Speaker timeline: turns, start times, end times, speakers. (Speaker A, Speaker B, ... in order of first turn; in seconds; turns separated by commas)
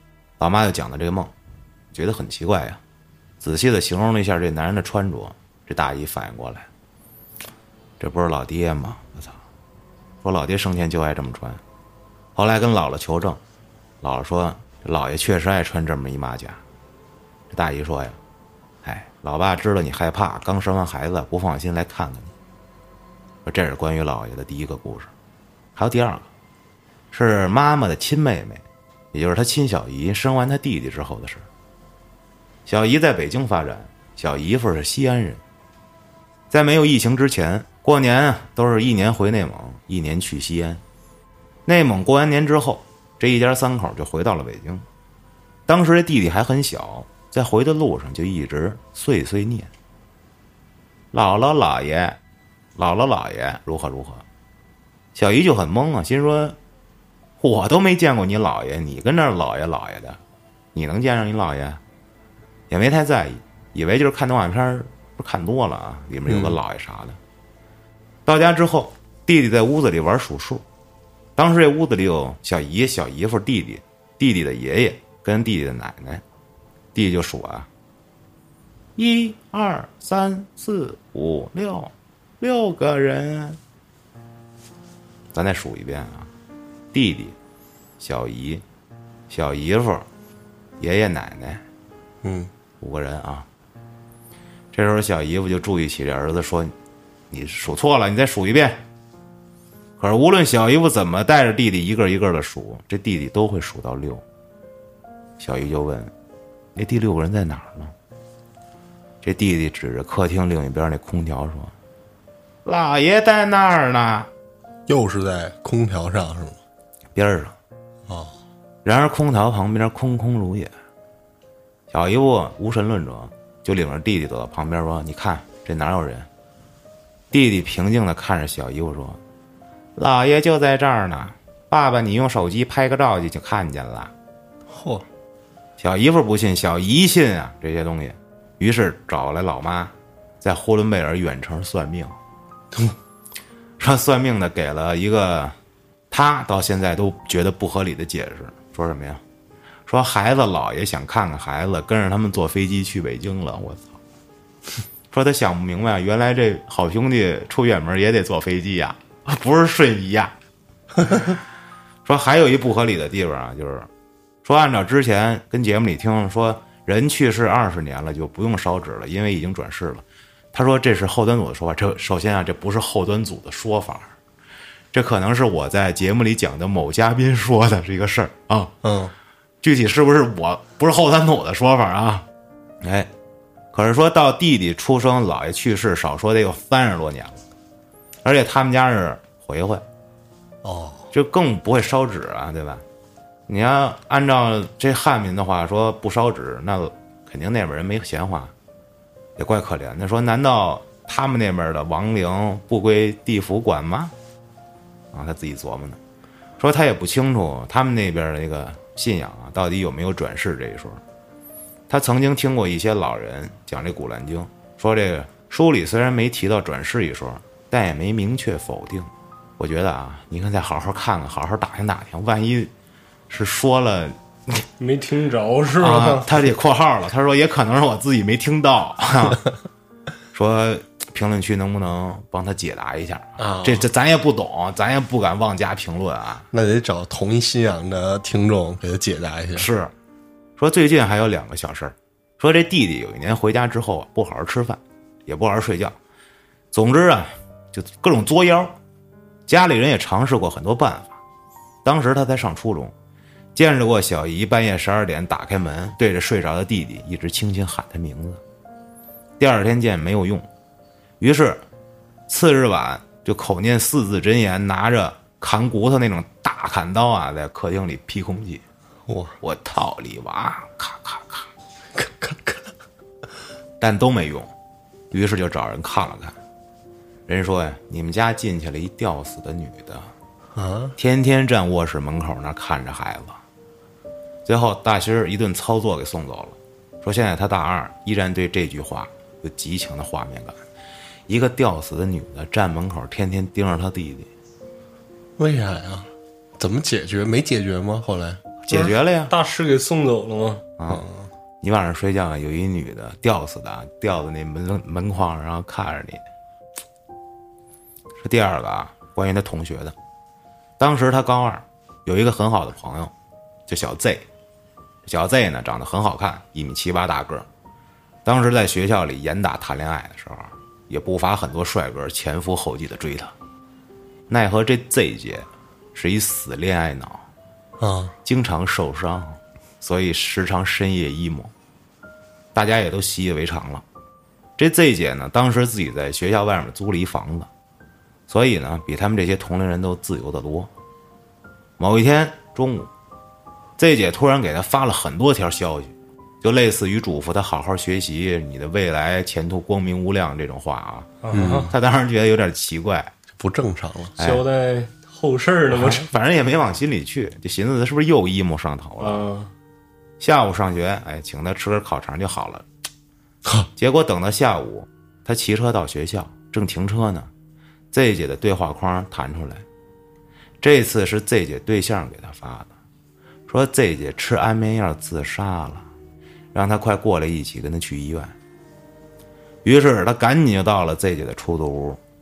Speaker A: 0.4-1.3, Speaker A: 1.9-2.8, Speaker A: 3.4-6.7, Speaker A: 8.0-9.4, Speaker A: 10.2-11.6, Speaker A: 12.3-13.4, Speaker A: 14.0-16.6, Speaker A: 17.5-18.2, Speaker A: 18.8-22.3, Speaker A: 23.4-25.1, Speaker A: 25.8-26.3, Speaker A: 27.1-31.4, Speaker A: 32.6-35.4, Speaker A: 36.5-40.8, Speaker A: 41.6-44.9, Speaker A: 45.7-49.7, Speaker A: 51.1-52.2, Speaker A: 52.8-54.2, Speaker A: 55.1-56.6, Speaker A: 57.4-60.2, Speaker A: 60.7-61.8, Speaker A: 62.7-67.2, Speaker B: 66.2-66.6, Speaker A: 68.2-70.6, Speaker A: 71.3-76.2, Speaker A: 76.9-77.7, Speaker A: 79.0-83.6, Speaker A: 85.3-86.3, Speaker A: 86.9-87.3, Speaker A: 88.0-88.6, Speaker A: 89.3-90.1, Speaker A: 90.8-91.6, Speaker B: 92.2-92.5, Speaker A: 92.8-93.5, Speaker A: 94.7-96.7, Speaker A: 97.3-98.8, Speaker A: 100.0-104.2, Speaker A: 105.4-106.1, Speaker A: 106.7-107.9, Speaker A: 109.2-111.7, Speaker A: 112.6-114.3, Speaker B: 114.9-116.6, Speaker A: 117.1-117.6, Speaker B: 118.1-118.3, Speaker A: 118.8-120.7, Speaker A: 121.9-126.3, Speaker A: 127.3-129.2, Speaker A: 129.9-134.1, Speaker B: 134.7-135.1, Speaker A: 135.8-142.2, Speaker A: 143.8-145.6, Speaker A: 146.1-149.2, Speaker A: 149.9-154.0, Speaker A: 155.1-160.3, Speaker A: 162.0-163.9, Speaker A: 164.4-174.1, Speaker A: 174.9-178.7, Speaker B: 178.8-179.1, Speaker A: 179.6-182.2, Speaker A: 182.8-183.1, Speaker A: 183.7-187.4, Speaker A: 188.2-189.8, Speaker B: 190.6-191.1, Speaker A: 191.1-192.8, Speaker A: 193.5-198.5, Speaker A: 199.4-204.1, Speaker A: 205.1-206.0, Speaker A: 206.6-211.0, Speaker A: 211.9-222.7, Speaker A: 223.3-224.6, Speaker C: 224.8-226.4, Speaker A: 225.8-229.4, Speaker A: 230.3-236.5, Speaker B: 233.4-233.9, Speaker B: 236.5-239.7, Speaker A: 239.5-239.9, Speaker A: 240.6-246.0, Speaker A: 246.7-248.7, Speaker A: 249.5-251.2, Speaker A: 251.8-252.9, Speaker A: 253.5-258.4, Speaker A: 259.4-260.5, Speaker A: 261.2-261.6, Speaker A: 262.3-268.6, Speaker B: 269.1-269.3, Speaker A: 269.4-271.5, Speaker B: 271.9-272.7, Speaker A: 273.8-274.5, Speaker A: 275.1-276.4, Speaker A: 277.3-280.1, Speaker B: 280.5-281.0, Speaker A: 281.0-283.4, Speaker A: 284.4-290.6, Speaker A: 291.3-294.3, Speaker B: 295.4-298.4, Speaker A: 298.7-299.3, Speaker C: 298.7-300.6, Speaker A: 300.8-301.1, Speaker B: 300.9-301.3, Speaker A: 301.6-306.2, Speaker A: 308.2-309.9, Speaker A: 310.8-313.1, Speaker A: 313.7-314.2, Speaker A: 315.0-317.5, Speaker A: 318.2-323.3, Speaker A: 324.3-327.2, Speaker B: 327.8-328.1, Speaker A: 328.2-331.5, Speaker A: 332.5-333.8, Speaker A: 334.6-337.5, Speaker A: 338.3-340.7, Speaker A: 341.8-342.9, Speaker A: 343.8-353.1, Speaker C: 351.2-351.7, Speaker B: 351.3-351.7, Speaker B: 353.4-354.1, Speaker A: 354.2-354.4, Speaker C: 354.2-356.1, Speaker A: 355.7-359.2, Speaker C: 359.0-359.5, Speaker A: 360.2-362.6, Speaker A: 363.8-367.3, Speaker A: 367.9-369.6, Speaker A: 370.6-372.7, Speaker A: 373.5-375.9, Speaker A: 376.5-378.4, Speaker A: 379.6-382.0